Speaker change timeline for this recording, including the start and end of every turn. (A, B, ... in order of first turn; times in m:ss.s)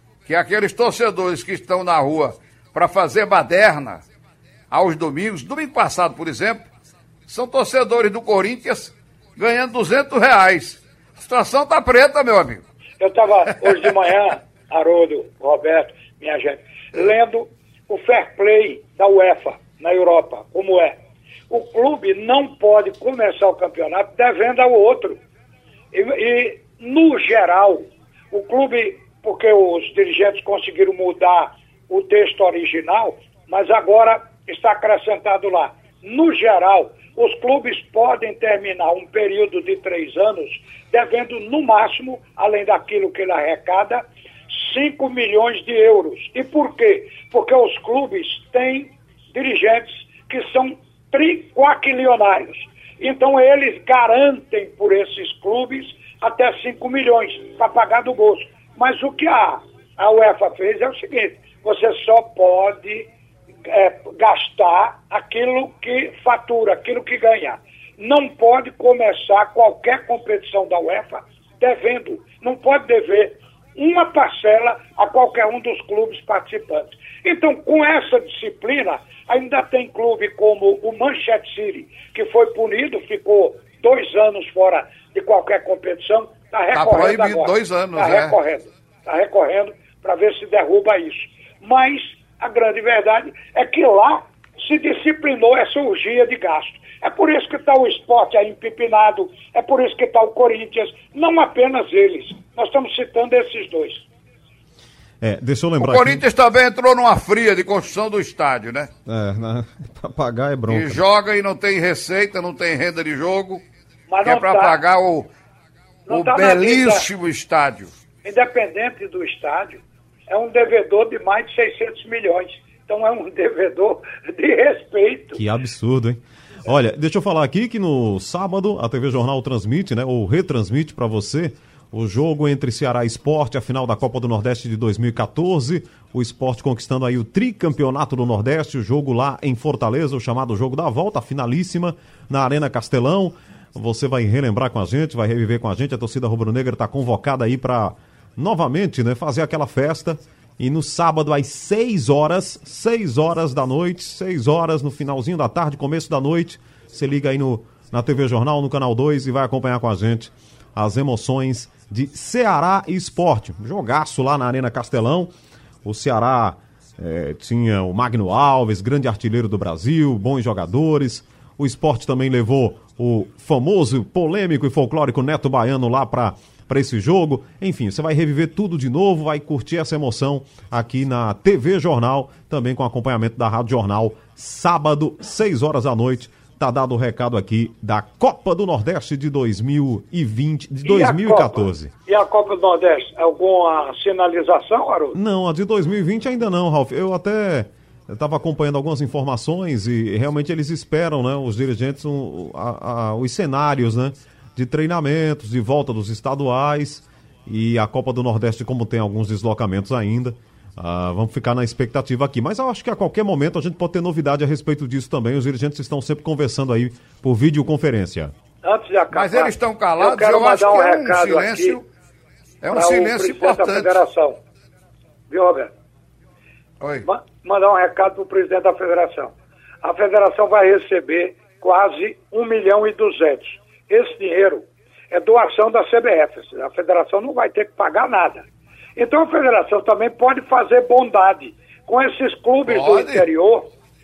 0:00.2-0:04.0 A
0:04.7-0:06.6 A
0:07.3-0:12.6 A
0:13.0-0:21.0 B
0:21.5-0:25.2 B
0:25.9-1:03.1 B
1:03.7-1:44.0 B
1:26.7-1:28.4 A
1:45.2-1:46.2 C
1:45.8-1:48.9 A
1:49.0-1:51.0 C
1:50.7-1:53.6 A
1:54.1-1:54.8 B
1:54.2-1:55.3 A
1:56.1-1:57.0 B
1:56.1-1:57.9 A
1:58.2-2:05.4 B
2:05.3-2:45.3 C
2:45.8-3:11.9 C
3:10.8-3:15.2 B
3:15.1-3:38.3 C
3:38.6-3:41.8 B
3:39.1-3:41.8 A
3:42.6-3:44.0 A
3:42.7-3:44.4 B
3:45.3-3:45.7 B
3:46.8-3:47.1 A
3:47.0-3:58.4 B
3:59.0-4:03.7 B
4:02.7-4:03.3 A